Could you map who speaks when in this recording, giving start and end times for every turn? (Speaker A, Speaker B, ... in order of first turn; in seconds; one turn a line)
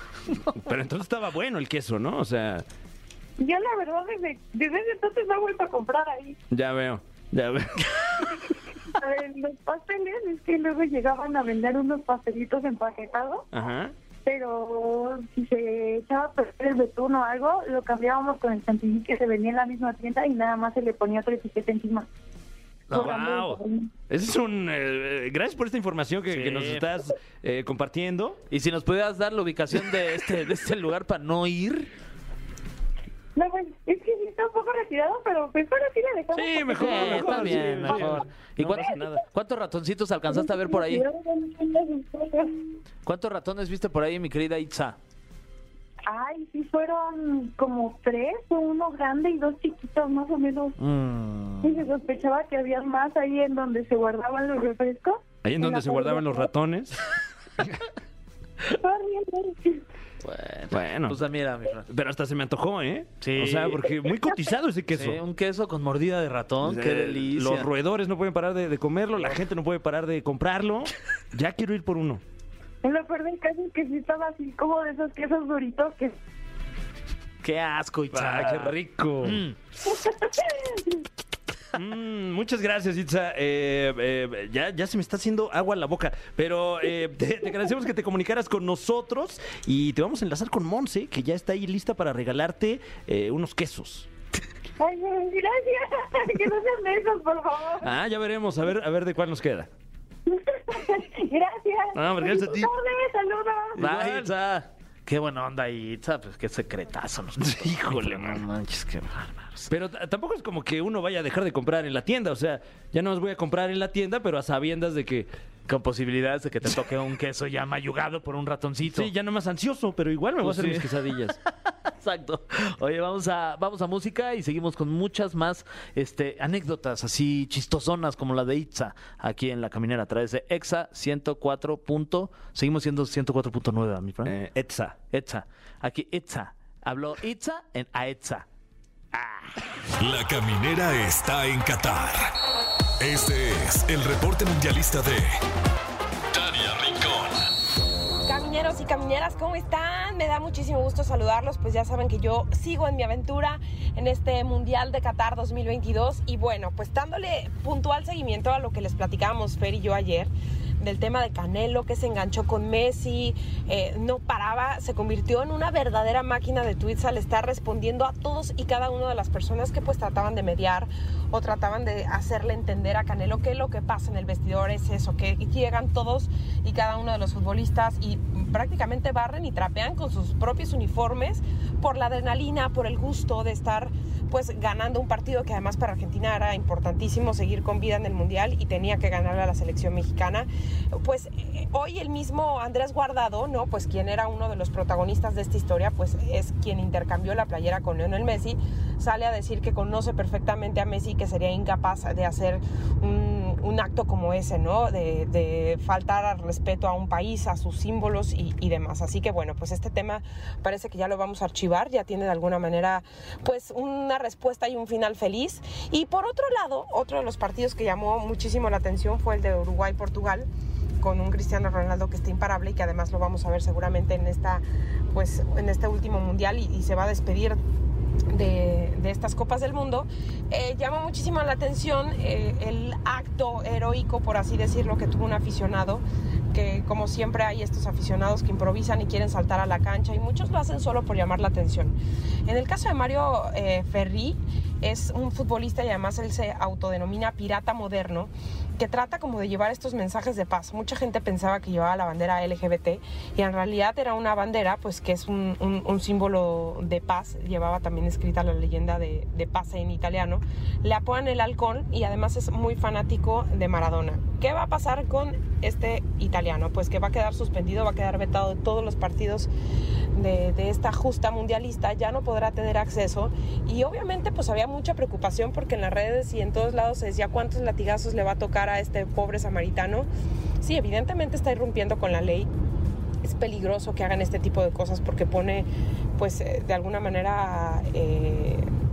Speaker A: 0.5-2.6
Speaker B: 3.4-6.4
Speaker A: 6.5-8.5
Speaker B: 8.9-13.4
Speaker A: 13.5-13.9
Speaker B: 14.2-22.1
Speaker B: 22.9-23.9
Speaker A: 22.9-28.4
Speaker C: 26.3-26.9
Speaker C: 28.5-31.9
Speaker B: 33.4-39.1
Speaker A: 36.3-39.2
Speaker C: 36.7-41.0
Speaker B: 40.3-42.6
Speaker C: 43.0-45.0
Speaker B: 46.1-50.7
Speaker C: 50.8-51.9
Speaker B: 51.6-56.5
Speaker A: 55.4-57.0
Speaker B: 58.7-59.8
Speaker C: 60.2-61.9
Speaker A: 60.7-61.2
Speaker A: 61.9-65.2
Speaker C: 63.2-64.0
Speaker C: 64.9-67.7
Speaker A: 66.6-72.2
Speaker B: 72.8-76.2
Speaker C: 77.4-79.5
Speaker A: 78.1-79.4
Speaker B: 79.9-81.0
Speaker A: 81.7-94.1
Speaker B: 94.8-97.9
Speaker A: 97.8-99.7
Speaker B: 100.3-103.8
Speaker A: 101.9-102.7
Speaker C: 103.8-109.7
Speaker A: 103.8-104.3
Speaker A: 107.4-108.4
Speaker A: 109.7-115.3
Speaker C: 115.7-119.1
Speaker A: 118.8-121.4
Speaker C: 120.4-134.3
Speaker A: 134.2-135.0
Speaker C: 135.1-138.4
Speaker C: 139.1-139.5
Speaker D: 140.0-142.3
Speaker D: 143.0-145.3
Speaker D: 146.3-147.4
Speaker E: 148.2-220.5
Speaker E: 221.0-227.6
Speaker E: 228.3-241.9
Speaker E: 242.5-269.5
Speaker E: 270.1-280.1
Speaker E: 280.6-282.5
Speaker E: 283.2-285.7
Speaker E: 286.2-288.7